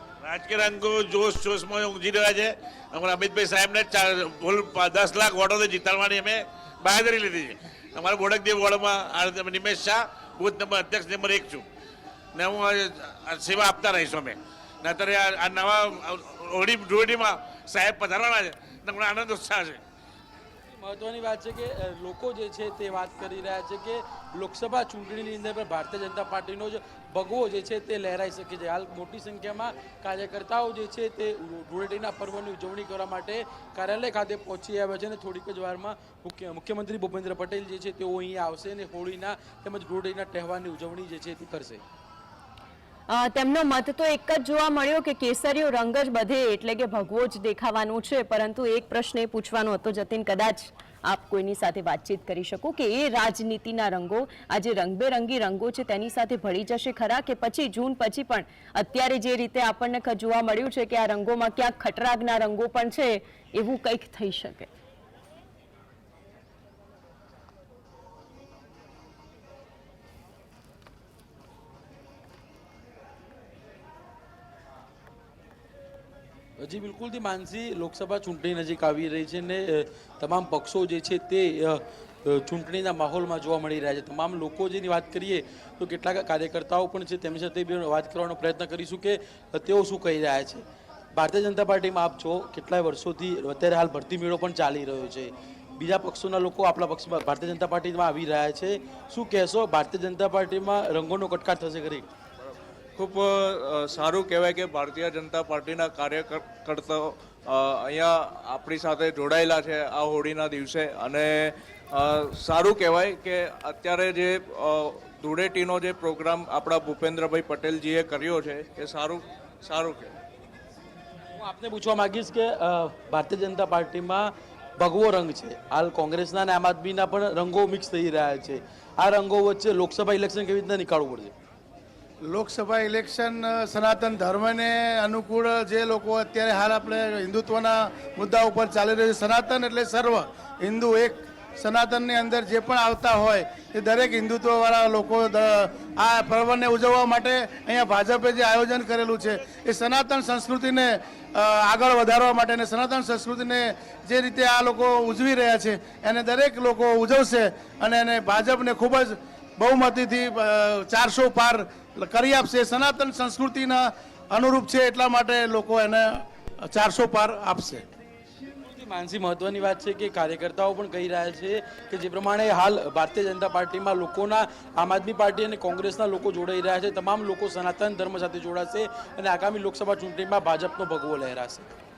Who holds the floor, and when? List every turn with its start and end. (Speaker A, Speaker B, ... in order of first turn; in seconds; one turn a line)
Speaker A: 0.2-11.6
Speaker A: 12.3-19.8
Speaker B: 20.7-41.8
Speaker C: 43.1-64.7
Speaker B: 76.6-102.0
Speaker D: 103.0-120.2
Speaker B: 121.3-131.3
Speaker E: 132.3-167.9
Speaker B: 168.6-181.7